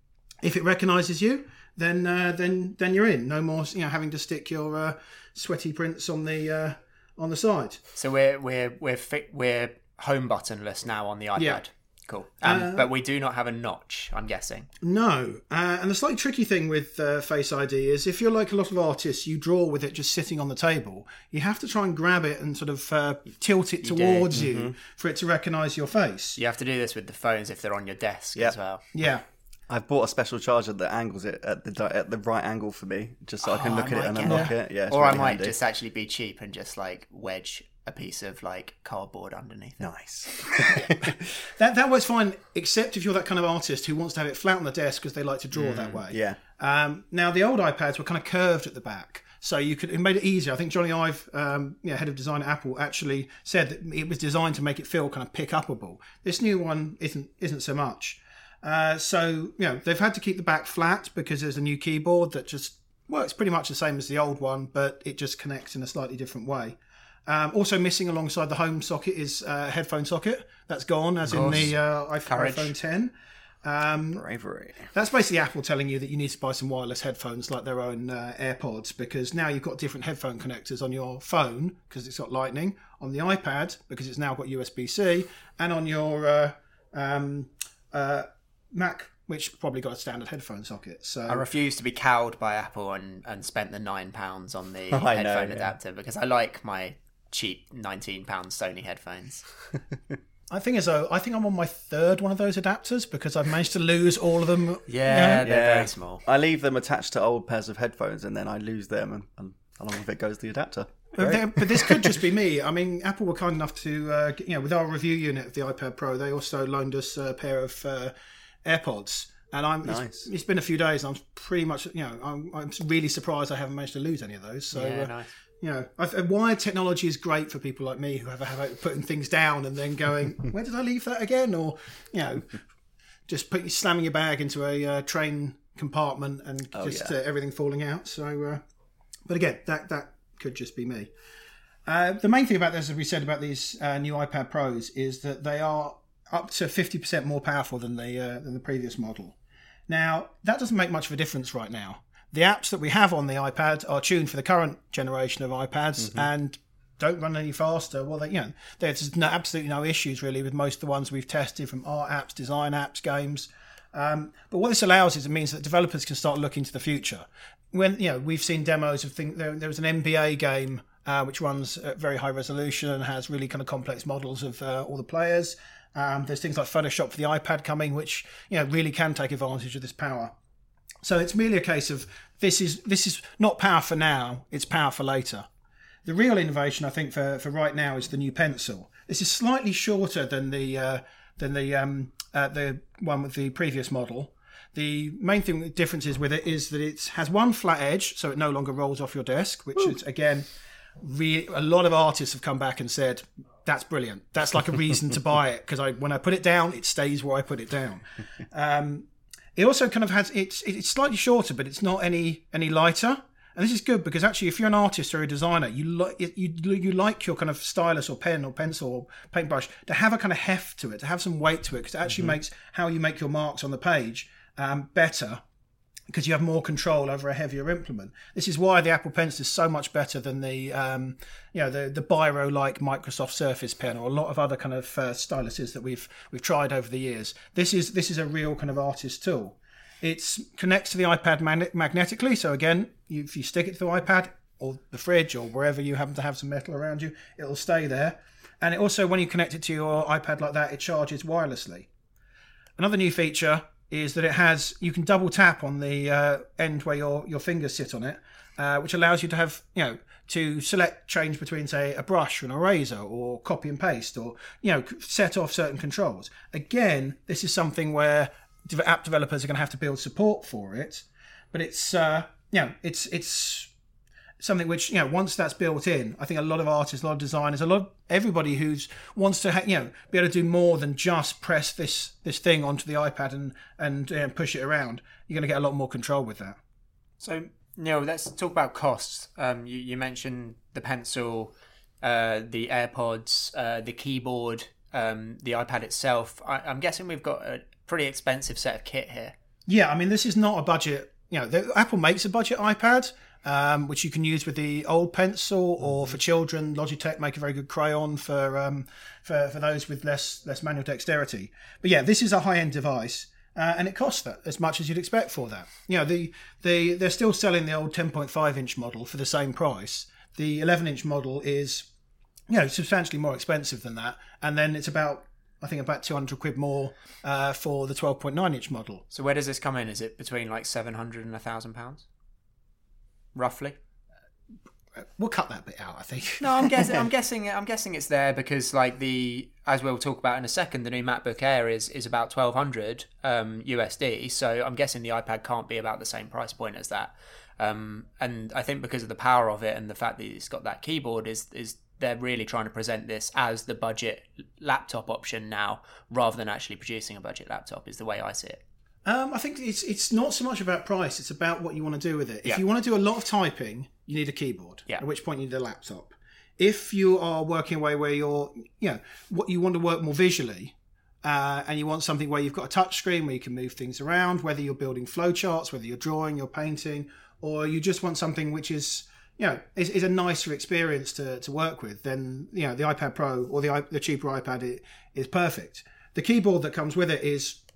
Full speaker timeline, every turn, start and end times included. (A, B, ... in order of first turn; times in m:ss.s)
0:00.4-0:07.8 A
0:08.0-0:14.7 B
0:11.4-0:11.6 A
0:12.4-0:12.9 A
0:14.8-0:26.4 A
0:23.8-0:24.3 B
0:24.3-0:24.7 C
0:26.4-0:28.8 B
0:28.9-0:29.2 A
0:29.7-0:35.5 C
0:33.4-0:39.8 B
0:34.2-0:34.5 A
0:39.8-0:41.3 C
0:41.6-1:13.1 A
0:45.6-0:46.0 B
0:46.1-0:46.4 C
1:11.3-1:11.7 B
1:12.3-1:12.7 B
1:13.6-1:14.2 A
1:14.1-1:14.9 C
1:14.9-1:31.5 A
1:31.3-1:39.5 B
1:34.9-1:35.7 C
1:40.5-1:45.5 A
1:44.9-1:46.2 B
1:45.4-1:52.2 C
1:51.2-1:58.1 A
1:58.6-2:12.6 A
1:59.8-2:00.3 C
2:04.7-2:05.3 B
2:13.3-2:18.6 A
2:16.7-2:17.1 C
2:19.3-2:21.1 A
2:21.9-2:29.4 A
2:29.9-3:00.3 A
2:36.0-2:36.3 C
3:01.0-3:05.5 A
3:06.0-3:20.5 A
3:21.0-3:45.4 A
3:46.1-4:11.9 A
4:12.8-4:33.7 A
4:34.4-4:46.6 A
4:47.2-4:59.3 B
4:59.7-5:21.9 A
5:22.5-5:29.0 A
5:29.1-5:32.1 B
5:33.4-5:33.8 B
5:35.0-5:37.1 A
5:36.4-5:58.6 B
5:59.0-6:27.6 A